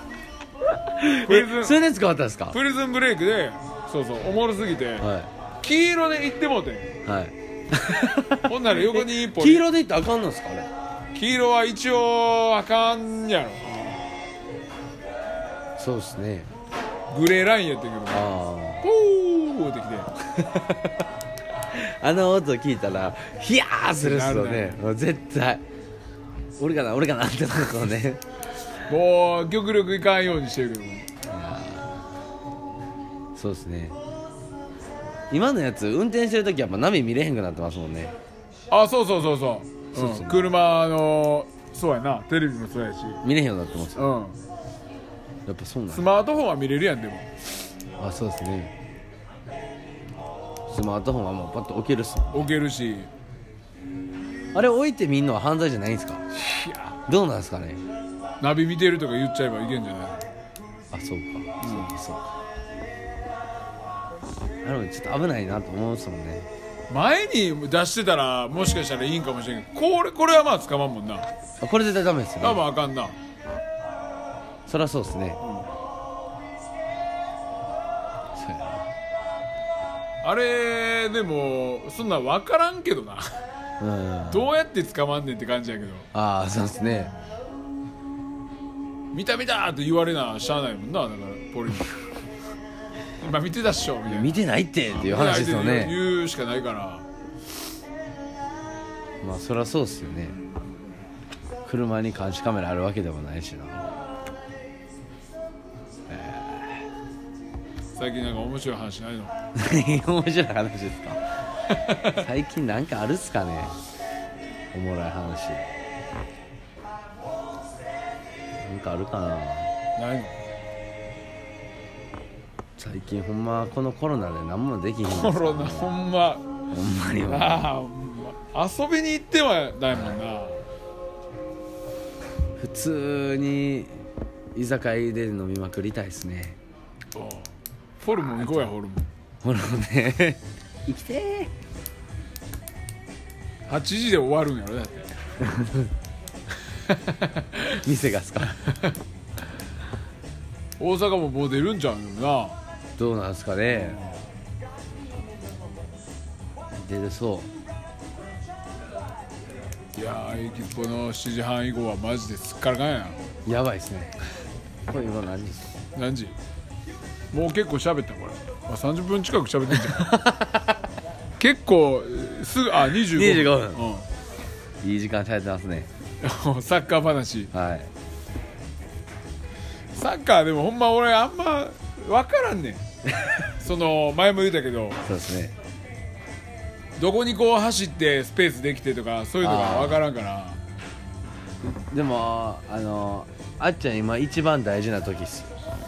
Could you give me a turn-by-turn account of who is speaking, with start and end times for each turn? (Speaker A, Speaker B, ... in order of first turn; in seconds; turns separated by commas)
Speaker A: 0.8-2.6, Speaker B: 1.2-1.8, Speaker B: 2.5-5.1, Speaker A: 5.0-5.3, Speaker B: 5.6-6.9, Speaker A: 7.0-10.7, Speaker B: 8.4-9.7, Speaker B: 11.1-14.1, Speaker A: 15.8-16.5, Speaker B: 17.1-18.3, Speaker A: 18.1-18.8, Speaker B: 18.8-20.1, Speaker A: 20.2-21.1, Speaker A: 21.7-25.6, Speaker B: 24.0-24.8, Speaker A: 26.6-28.2, Speaker B: 28.9-31.1, Speaker A: 31.3-32.0, Speaker A: 33.4-34.0, Speaker A: 35.3-38.1, Speaker B: 38.7-43.2, Speaker A: 39.9-40.5, Speaker A: 43.2-44.1, Speaker B: 44.0-44.4, Speaker A: 45.5-46.1, Speaker B: 45.9-47.3, Speaker A: 48.0-48.7, Speaker A: 50.7-52.5, Speaker B: 52.3-53.1, Speaker A: 54.5-56.2, Speaker B: 56.3-57.0, Speaker A: 57.1-57.8, Speaker B: 58.4-60.3, Speaker A: 60.9-62.3, Speaker B: 61.6-61.9, Speaker A: 64.6-66.5, Speaker B: 66.9-71.3, Speaker A: 71.6-72.6, Speaker B: 72.4-73.2, Speaker A: 74.7-75.4, Speaker B: 75.4-75.7, Speaker A: 78.4-78.9, Speaker B: 80.2-83.4, Speaker A: 83.8-84.5, Speaker B: 84.3-86.1, Speaker A: 86.1-87.1, Speaker B: 89.1-92.0, Speaker B: 93.2-94.4, Speaker A: 94.1-96.0, Speaker B: 94.9-97.1, Speaker A: 99.2-100.4, Speaker A: 101.7-103.9, Speaker A: 106.1-106.8, Speaker B: 108.0-109.3, Speaker A: 109.5-111.2, Speaker B: 111.7-112.2, Speaker A: 112.0-113.8, Speaker A: 114.7-115.7, Speaker A: 118.6-119.7, Speaker B: 120.0-120.4, Speaker A: 122.8-125.9, Speaker B: 125.1-126.5, Speaker A: 126.7-127.6, Speaker B: 127.3-130.6, Speaker A: 132.6-134.0, Speaker A: 134.6-136.6, Speaker B: 137.1-137.5, Speaker B: 138.0-139.1, Speaker A: 139.4-141.5, Speaker B: 143.7-145.1, Speaker A: 145.4-145.9, Speaker B: 146.9-147.8, Speaker A: 147.7-148.8, Speaker B: 150.8-152.6, Speaker A: 153.0-154.0, Speaker B: 153.7-154.2, Speaker A: 156.8-157.5, Speaker B: 159.9-163.2, Speaker A: 163.5-164.2, Speaker A: 164.9-165.8, Speaker B: 165.9-166.3, Speaker B: 167.3-170.2, Speaker A: 169.9-170.8, Speaker B: 171.4-174.1, Speaker A: 173.0-173.8, Speaker A: 174.8-175.9, Speaker B: 176.2-177.5, Speaker A: 177.5-177.9, Speaker B: 179.9-182.8, Speaker A: 183.1-183.5, Speaker B: 183.6-185.0, Speaker A: 185.1-185.5, Speaker B: 187.0-190.6, Speaker A: 189.4-190.0, Speaker A: 191.9-195.5